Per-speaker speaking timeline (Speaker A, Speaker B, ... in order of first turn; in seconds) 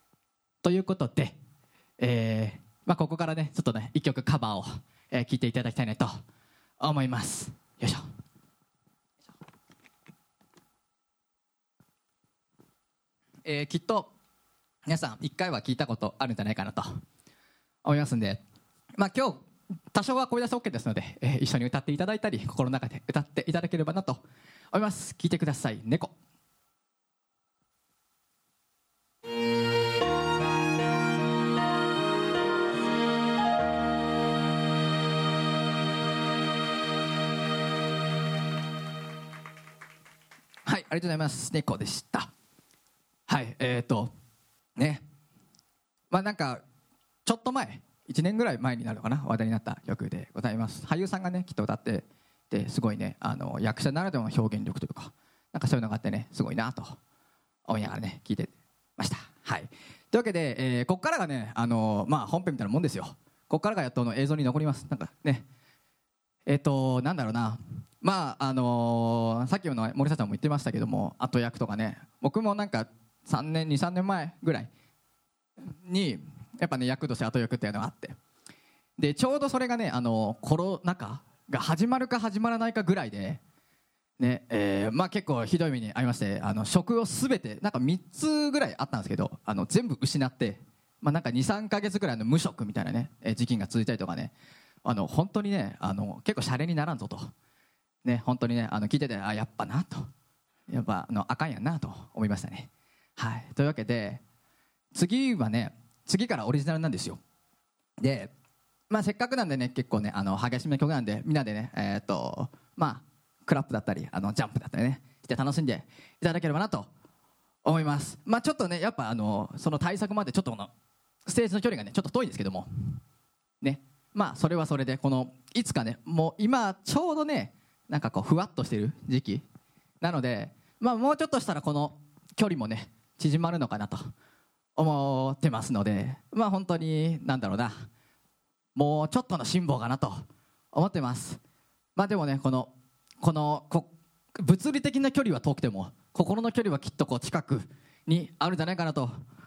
Speaker A: 0.6-1.4, 2.0-6.2, 6.8-8.0, 13.4-14.1, 14.8-17.0, 17.8-18.4, 18.9-26.1, 40.6-42.3, 43.3-44.1, 44.8-45.0, 46.1-46.6, 47.2-57.0, 57.7-65.4, 66.5-74.7, 75.6-78.2, 79.0-83.4, 84.2-94.3, 94.8-97.3, 98.0-100.1, 100.7-104.2, 104.9-107.2, 108.0-108.3, 108.9-116.9, 117.6-120.7, 121.2-123.0, 123.6-129.4, 130.0-134.1, 134.8-137.8, 138.7-141.4, 141.9-149.1